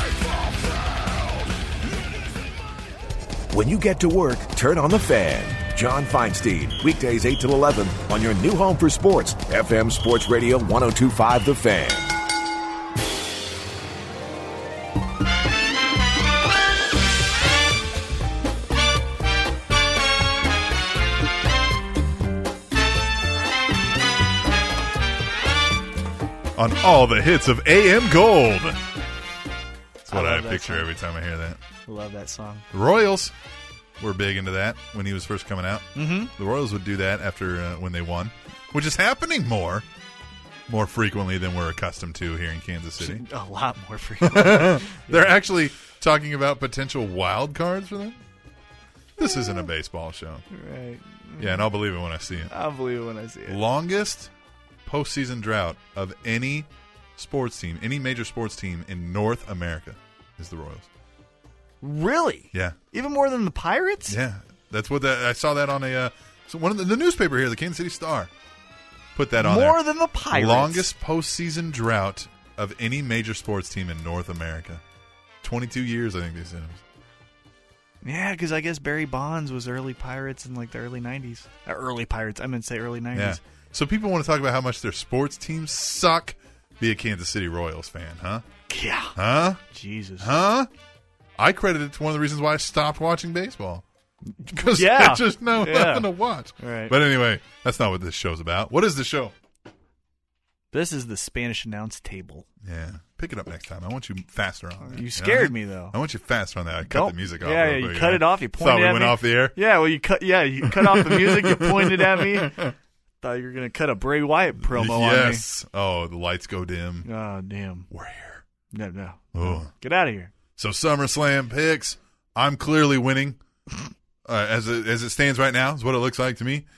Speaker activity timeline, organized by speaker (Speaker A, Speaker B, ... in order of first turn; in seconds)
Speaker A: 3.5-12.2
Speaker B: 26.6-28.8, 30.0-31.6, 32.7-33.3, 34.0-39.9, 40.7-43.2, 44.2-48.2, 49.2-50.5, 51.4-52.5, 53.5-54.3, 54.9-60.9, 62.5-62.8, 64.1-68.3, 69.2-74.8, 75.4-76.8, 83.1-88.5, 89.2-89.6, 90.2-90.7, 91.4-93.8, 94.4-99.3, 102.6-109.6, 110.6-112.7, 114.6-117.1, 117.9-118.4, 119.3-119.7, 120.6-123.4, 124.2-126.7
Speaker C: 30.1-30.9, 31.9-32.6, 36.0-36.3, 43.0-45.4, 50.5-51.7, 52.5-53.6, 61.8-64.2, 69.4-70.9, 78.0-83.4, 88.7-90.3, 94.6-97.0, 100.7-102.5, 104.8-106.0, 106.9-112.6, 113.2-115.5, 117.0-117.9, 118.7-120.3